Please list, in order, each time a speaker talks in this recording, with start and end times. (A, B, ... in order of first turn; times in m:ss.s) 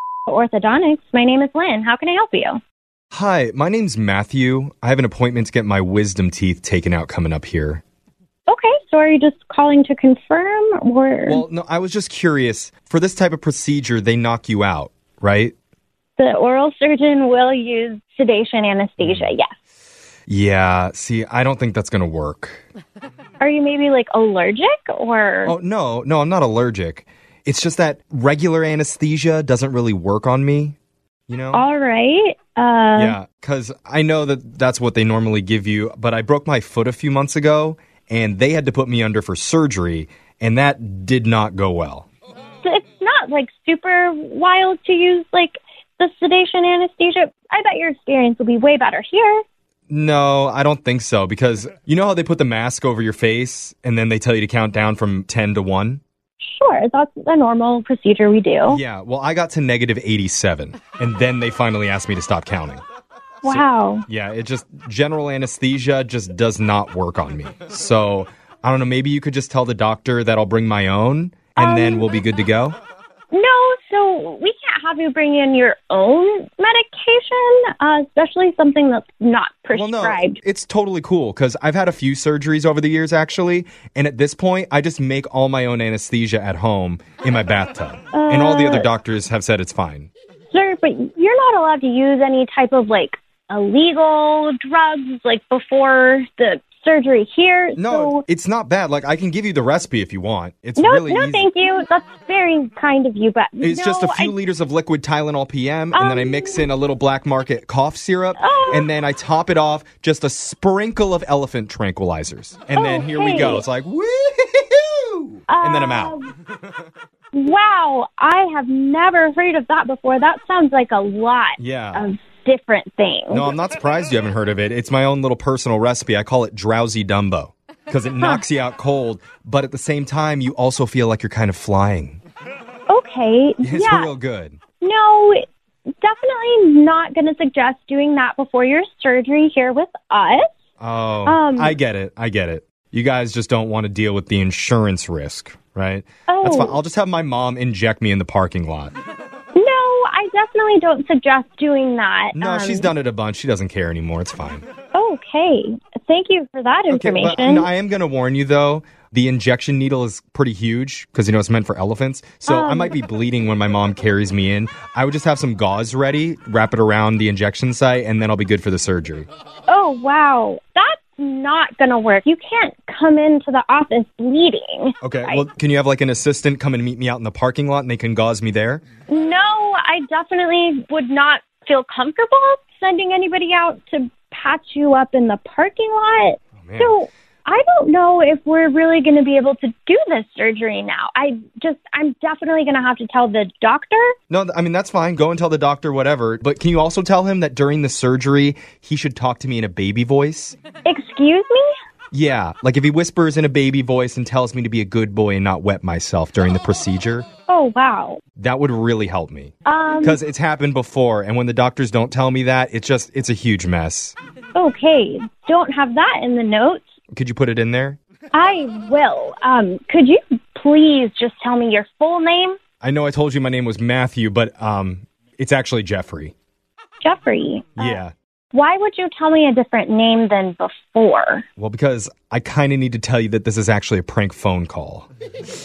0:00.3-0:02.6 A
0:03.1-0:07.8 B
0:08.5-0:11.4 A
0:11.3-0:15.5 B
0:16.2-0:19.5 A
0:19.0-0:19.3 B
0:20.3-0:22.6 B
0:23.4-0:25.5 A
0:25.4-0:30.8 B
0:31.3-0:31.6 B
0:31.5-0:33.2 A
0:33.0-0:42.1 B
0:42.6-0:49.4 A
0:49.9-0:56.0 B
0:56.4-0:58.8 A
0:58.7-1:02.8 B
1:03.4-1:04.0 A
1:03.4-1:12.8 B
1:11.6-1:12.1 A
1:13.3-1:20.4 A
1:19.7-1:30.1 B
1:28.1-1:28.9 A
1:30.5-1:38.2 A
1:37.8-1:41.5 B
1:40.8-1:44.3 A
1:43.6-1:56.2 B
1:45.9-1:46.7 A
1:48.4-1:48.9 A
1:52.7-1:53.6 A
1:55.5-1:56.3 A
1:57.3-2:03.5 A
2:01.6-2:02.1 B
2:03.3-2:12.2 B
2:12.9-2:14.1 A
2:13.6-2:14.6 B
2:14.8-2:15.4 A
2:16.0-2:20.5 A
2:20.8-2:28.9 B
2:21.2-2:21.8 A
2:26.3-2:26.8 A
2:29.5-2:32.9 A
2:32.3-2:34.7 B
2:34.9-2:37.7 A
2:36.9-2:49.3 B
2:42.5-2:43.0 A
2:49.7-2:55.4 A
2:55.0-2:58.8 B
2:59.1-3:14.1 A
3:06.6-3:07.0 B
3:14.3-3:20.6 B
3:20.8-3:21.7 A
3:22.1-3:27.3 B
3:27.5-3:28.2 A
3:28.4-3:34.2 B
3:29.7-3:30.2 A
3:34.5-3:36.9 A
3:37.1-3:38.0 B
3:38.3-3:42.6 A
3:42.8-3:46.3 B
3:47.0-3:48.0 A
3:47.8-3:48.1 B
3:48.5-3:51.4 A
3:51.6-3:55.1 B